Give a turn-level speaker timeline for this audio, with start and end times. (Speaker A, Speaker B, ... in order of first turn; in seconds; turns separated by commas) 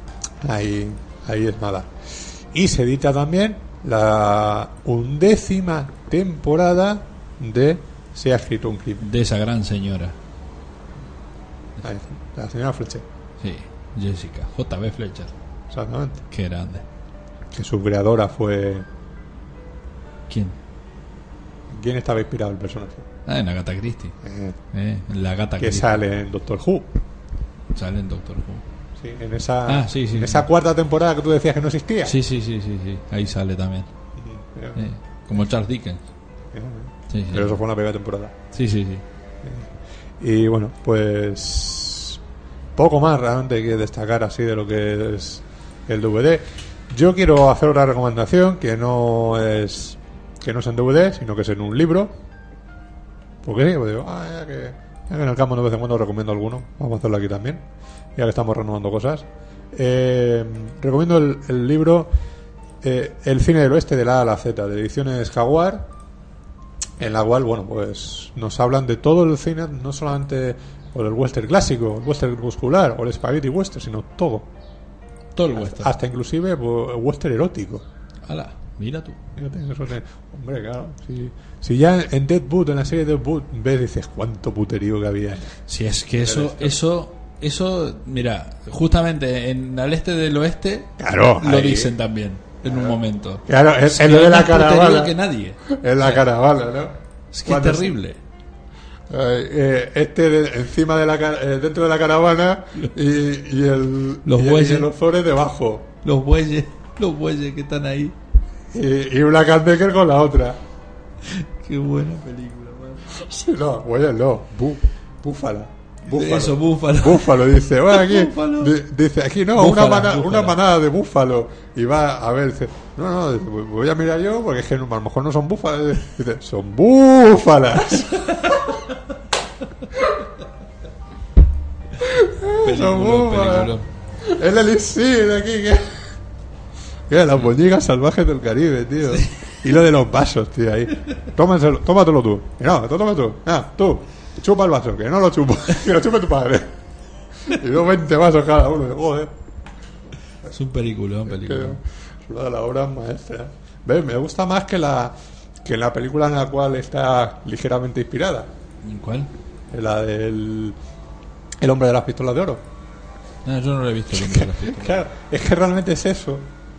Speaker A: 0.4-9.1, Speaker B: 9.0-10.1, Speaker A: 11.8-13.1, Speaker B: 13.4-15.3, Speaker A: 15.7-16.3, Speaker B: 16.3-16.9, Speaker A: 17.5-18.9, Speaker B: 20.3-20.6, Speaker A: 21.7-23.1, Speaker B: 23.3-24.2, Speaker A: 24.2-24.6, Speaker B: 24.7-25.9, Speaker A: 25.6-26.9, Speaker B: 27.7-28.6, Speaker A: 29.0-32.2, Speaker B: 29.7-30.5, Speaker B: 32.0-33.9, Speaker A: 34.2-35.4, Speaker B: 34.8-36.0, Speaker A: 36.5-38.4, Speaker B: 37.1-37.6, Speaker B: 38.5-39.0, Speaker A: 39.4-42.2, Speaker A: 42.8-52.1, Speaker A: 53.4-62.1, Speaker A: 62.8-65.9, Speaker A: 67.0-74.5, Speaker B: 75.3-75.9, Speaker A: 75.5-77.8, Speaker B: 78.3-79.2, Speaker A: 79.4-85.7, Speaker B: 85.7-96.2, Speaker A: 86.2-86.8, Speaker A: 91.0-91.9, Speaker A: 92.6-95.1, Speaker A: 95.7-98.0, Speaker B: 97.3-98.2, Speaker A: 99.1-106.0, Speaker B: 104.2-104.9, Speaker B: 106.0-108.2, Speaker A: 108.7-110.6, Speaker B: 111.2-113.1, Speaker A: 113.1-128.4, Speaker B: 116.1-118.8, Speaker B: 119.6-120.6, Speaker A: 132.0-136.1, Speaker B: 132.6-133.9, Speaker A: 137.1-146.7, Speaker A: 147.4-149.3, Speaker B: 150.5-151.8, Speaker A: 151.3-158.5, Speaker B: 158.8-159.3, Speaker A: 159.7-160.8, Speaker A: 161.6-162.7, Speaker B: 163.4-165.0, Speaker A: 164.1-166.5